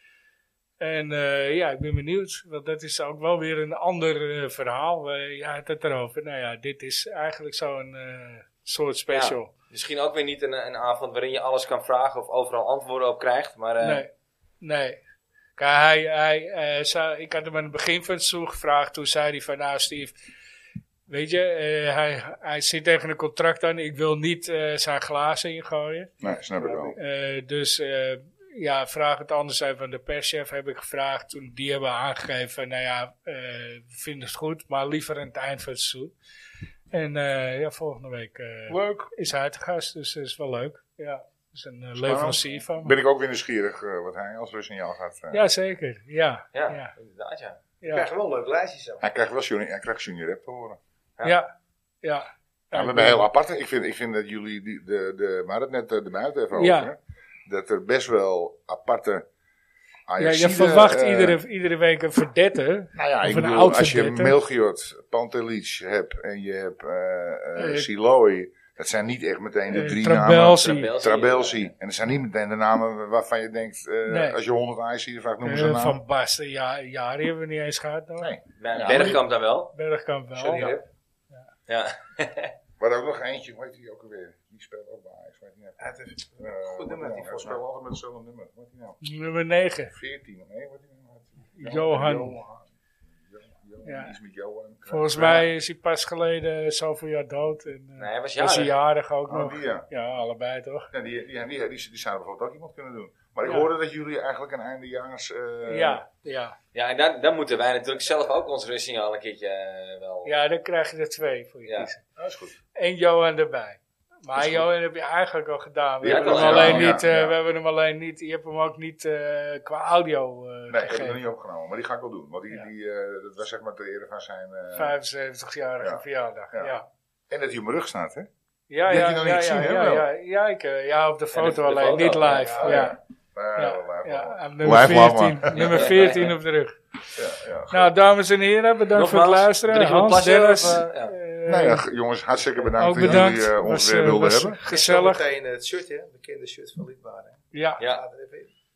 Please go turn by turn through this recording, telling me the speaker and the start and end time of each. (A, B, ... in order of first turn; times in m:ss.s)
0:00.8-0:09.5 A
0:09.1-0:14.0 B
0:13.8-0:14.1 A
0:14.6-0:15.0 A
0:15.6-0:20.1 A
0:21.1-0:26.1 A
0:26.2-0:27.0 C
0:26.2-0:26.9 D
0:26.9-0:36.1 A
0:36.9-0:42.9 A
0:38.7-0:39.1 C
0:42.0-0:45.4 C
0:45.3-0:46.9 A
0:46.5-0:47.6 B
0:47.8-0:48.1 A
0:47.8-0:49.0 D
0:49.0-0:50.8 C
0:51.2-0:51.5 A
0:52.0-0:53.2 A
0:52.7-0:59.2 C
0:56.5-0:56.9 A
1:00.1-1:01.4 C
1:00.2-1:04.3 A
1:02.9-1:16.0 C
1:07.6-1:07.9 A
1:09.7-1:10.9 A
1:10.6-1:11.7 B
1:14.1-1:14.4 A
1:15.4-1:18.3 A
1:18.2-1:19.2 C
1:18.6-1:19.7 B
1:18.9-1:19.2 A
1:19.7-1:20.7 A
1:20.4-1:20.8 B
1:21.7-1:22.5 B
1:22.8-1:29.0 C
1:25.8-1:27.6 D
1:29.0-1:29.9 A
1:29.9-1:32.7 C
1:31.6-1:32.4 A
1:33.2-1:35.5 C
1:33.8-1:34.1 A
1:34.9-1:40.9 A
1:38.0-1:38.7 B
1:39.3-1:39.8 C
1:40.9-1:46.0 C
1:45.6-1:46.6 A
1:46.7-1:50.3 B
1:50.2-1:52.0 A
1:51.6-1:51.9 B
1:52.2-1:52.6 C
1:52.7-2:01.2 A
1:54.3-1:54.7 C
1:56.0-1:57.4 C
1:56.0-1:56.9 B
2:00.7-2:04.9 C
2:04.7-2:06.8 A
2:07.3-2:08.3 C
2:08.7-2:13.0 A
2:08.9-2:10.1 C
2:11.3-2:12.9 B
2:12.5-2:12.8 D
2:12.6-2:16.0 C
2:13.6-2:16.8 A
2:15.5-2:16.3 B
2:17.2-2:17.9 C
2:17.7-2:21.8 A
2:18.9-2:21.1 B
2:21.5-2:24.6 C
2:22.6-2:23.1 D
2:22.8-2:25.2 A
2:24.6-2:28.5 D
2:27.5-2:27.8 A
2:27.8-2:28.0 B